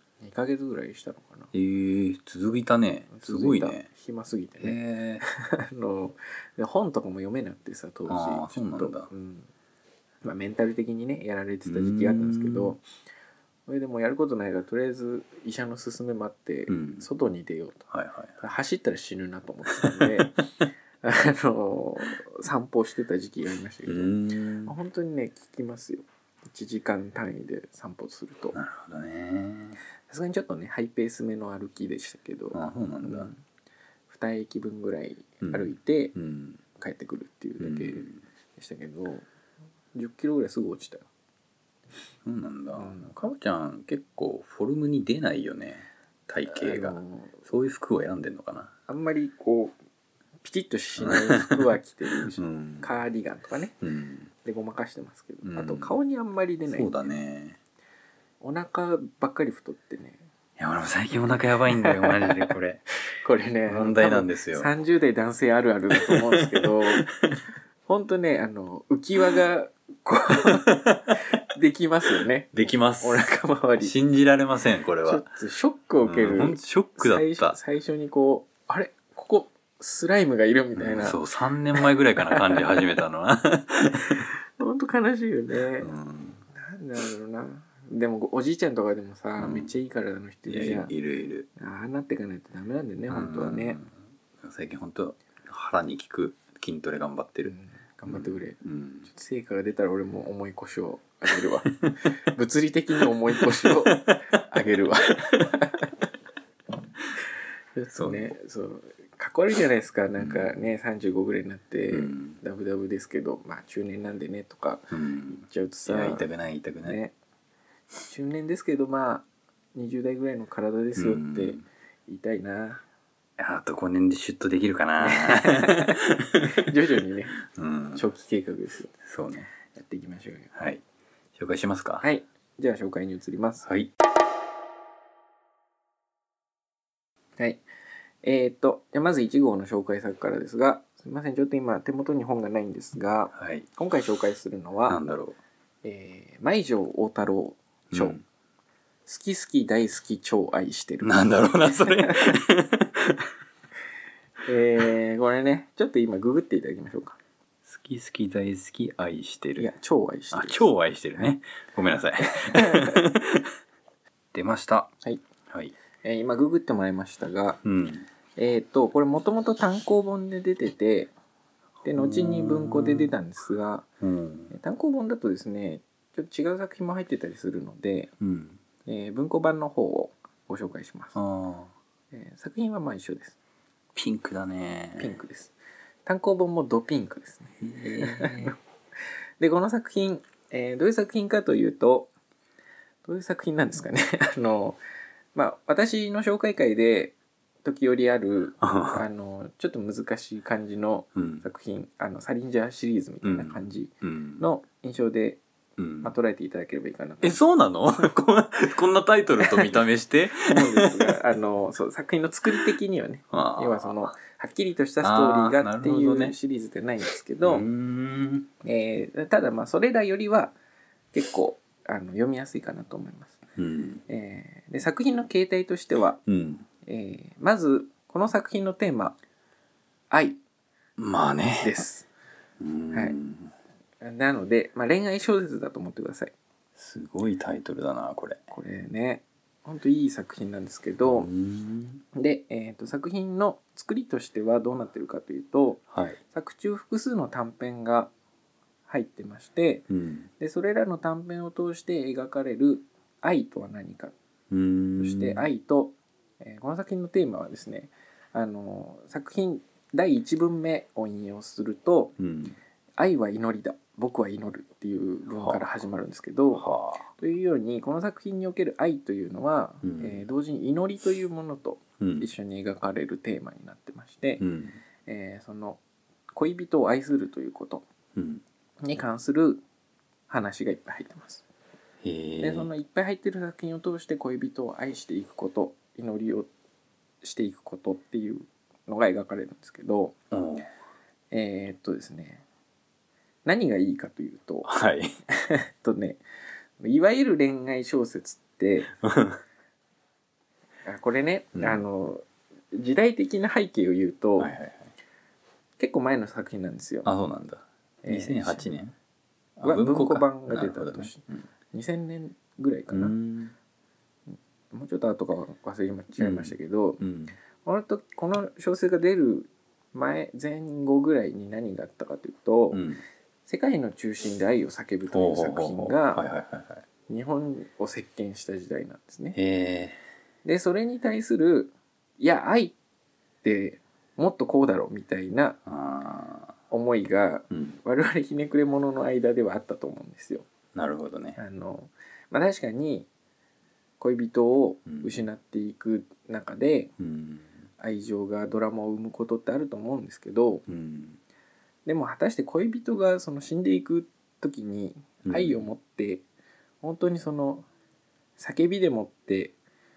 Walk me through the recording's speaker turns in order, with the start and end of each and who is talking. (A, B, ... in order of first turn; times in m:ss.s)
0:00.2-0:01.5 A
0:01.5-0:03.8 B
0:03.1-0:09.5 A
0:04.6-0:05.2 B
0:08.1-0:09.1 B
0:10.2-0:12.8 A
0:11.6-0:12.8 B
0:13.7-0:17.8 A
0:16.7-0:17.0 B
0:17.9-0:18.4 B
0:18.4-0:20.5 A
0:19.7-0:20.3 B
0:21.0-0:28.6 A
0:23.9-0:24.7 B
0:28.5-0:29.8 B
0:30.1-0:33.4 A
0:32.5-0:33.3 B
0:34.1-0:36.1 A
0:35.4-0:36.6 B
0:36.8-0:39.2 A
0:37.6-0:38.2 B
0:39.9-0:41.0 A
0:42.2-0:48.7 B
0:42.7-0:43.2 A
0:46.5-0:47.4 A
0:48.9-0:49.7 A
0:50.4-0:53.7 A
0:51.0-0:52.9 B
0:53.8-0:54.3 B
0:54.4-0:56.9 A
0:55.4-0:55.9 B
0:56.7-0:57.6 B
0:58.4-1:00.2 A
1:00.6-1:02.8 B
1:01.7-1:02.5 A
1:03.0-1:07.1 A
1:03.6-1:04.7 B
1:05.9-1:07.3 B
1:07.8-1:13.9 A
1:10.5-1:11.2 B
1:12.5-1:13.2 B
1:13.8-1:15.2 B
1:15.0-1:21.2 A
1:16.0-1:17.6 B
1:20.8-1:24.3 B
1:21.7-1:22.8 A
1:24.1-1:25.9 A
1:25.8-1:26.4 B
1:26.5-1:30.9 A
1:29.4-1:29.7 B
1:30.5-1:31.5 B
1:31.6-1:33.8 A
1:33.1-1:37.5 B
1:37.4-1:45.9 A
1:38.1-1:39.1 B
1:43.4-1:44.7 B
1:47.7-1:56.2 A
1:48.0-1:48.3 B
1:50.2-1:50.7 B
1:51.9-1:52.4 B
1:54.9-1:57.0 B
1:56.8-1:57.1 A
1:58.1-2:02.8 A
2:01.0-2:01.6 B
2:03.4-2:06.7 B
2:05.0-2:07.4 A
2:07.4-2:08.0 B
2:07.9-2:08.9 A
2:09.0-2:09.5 B
2:09.7-2:10.5 A
2:10.5-2:10.8 B
2:11.3-2:12.0 B
2:12.0-2:13.7 A
2:13.6-2:13.9 B
2:17.4-2:17.6 A
2:18.2-2:25.0 A
2:23.3-2:23.7 B
2:24.9-2:25.4 B
2:25.8-2:28.2 A
2:27.9-2:28.2 B
2:29.0-2:32.3 A
2:31.0-2:33.3 B
2:34.4-2:37.2 A
2:37.7-2:39.7 B
2:39.6-2:40.7 A
2:40.3-2:43.5 B
2:42.4-2:43.0 A
2:44.3-2:44.9 B
2:45.5-2:45.7 B
2:46.0-2:47.6 A
2:47.6-2:48.1 B
2:48.4-2:51.1 A
2:51.8-2:53.9 A
2:51.9-2:53.1 B
2:54.0-2:54.5 B
2:54.5-2:58.1 A
2:58.2-2:58.6 B
2:58.8-3:01.2 A
3:01.1-3:01.7 B
3:02.1-3:03.4 A
3:03.9-3:05.2 B
3:05.0-3:05.5 A
3:06.0-3:08.6 A
3:07.6-3:08.6 B
3:09.4-3:12.1 A
3:13.0-3:14.8 A
3:15.3-3:25.4 A
3:18.6-3:19.0 B
3:21.1-3:21.4 B
3:23.2-3:24.4 B
3:25.8-3:26.1 B
3:26.0-3:27.4 A
3:27.2-3:31.2 B
3:29.4-3:29.8 A
3:30.4-3:37.7 A
3:33.3-3:34.0 B
3:35.0-3:36.3 B
3:37.4-3:38.5 B
3:38.6-3:40.5 A
3:41.1-3:43.4 A
3:43.6-3:44.0 B
3:44.1-3:46.2 A
3:46.2-3:46.6 B
3:46.8-3:49.2 A
3:50.1-3:50.4 A
3:51.0-3:51.8 B
3:51.6-3:52.1 A
3:52.6-3:53.5 B
3:52.9-3:53.2 A
3:54.0-3:56.3 A
3:56.8-3:58.4 B
3:58.5-4:01.3 A
4:01.0-4:02.0 B
4:02.1-4:08.1 A
4:05.9-4:06.2 B
4:08.9-4:09.8 A
4:09.9-4:10.3 B
4:10.4-4:14.1 A
4:14.5-4:15.4 B
4:15.0-4:22.1 A
4:22.2-4:22.6 B
4:23.0-4:34.4 A
4:25.3-4:25.7 B
4:26.5-4:27.1 B
4:29.8-4:30.2 B
4:32.0-4:32.3 B
4:34.4-4:34.8 B
4:35.0-4:35.8 A
4:36.3-4:37.8 A
4:38.2-4:38.4 B
4:38.8-4:39.6 A
4:40.3-4:41.4 A
4:42.0-4:42.7 B
4:42.4-4:46.5 A
4:47.2-4:50.1 A
4:50.3-4:50.7 B
4:51.3-4:52.4 A
4:53.4-4:54.7 A
4:54.6-4:55.2 B
4:55.3-4:56.2 A
4:56.8-4:58.9 A
4:59.0-4:59.4 B
5:00.8-5:04.5 A
5:01.6-5:01.8 B
5:04.4-5:04.9 B
5:05.8-5:07.1 A
5:07.0-5:08.9 B
5:08.0-5:08.7 A
5:09.6-5:11.4 B
5:09.6-5:13.1 A
5:12.9-5:13.5 B
5:14.7-5:17.0 A
5:16.2-5:17.3 B
5:17.6-5:22.8 A
5:22.7-5:23.0 B
5:23.5-5:26.2 A
5:25.1-5:26.8 B
5:27.1-5:29.4 A
5:29.3-5:30.0 B
5:30.4-5:32.8 A
5:33.4-5:35.6 A
5:35.6-5:36.5 B
5:36.7-5:40.4 A
5:37.5-5:37.8 B
5:40.7-5:41.4 B
5:41.4-5:43.1 A
5:44.0-5:46.9 A
5:44.9-5:45.1 B
5:47.0-5:47.5 B
5:47.8-5:50.6 A
5:50.7-5:51.2 B
5:51.8-5:56.2 A
5:55.2-5:55.7 B
5:56.8-5:57.6 A
5:58.4-5:59.5 A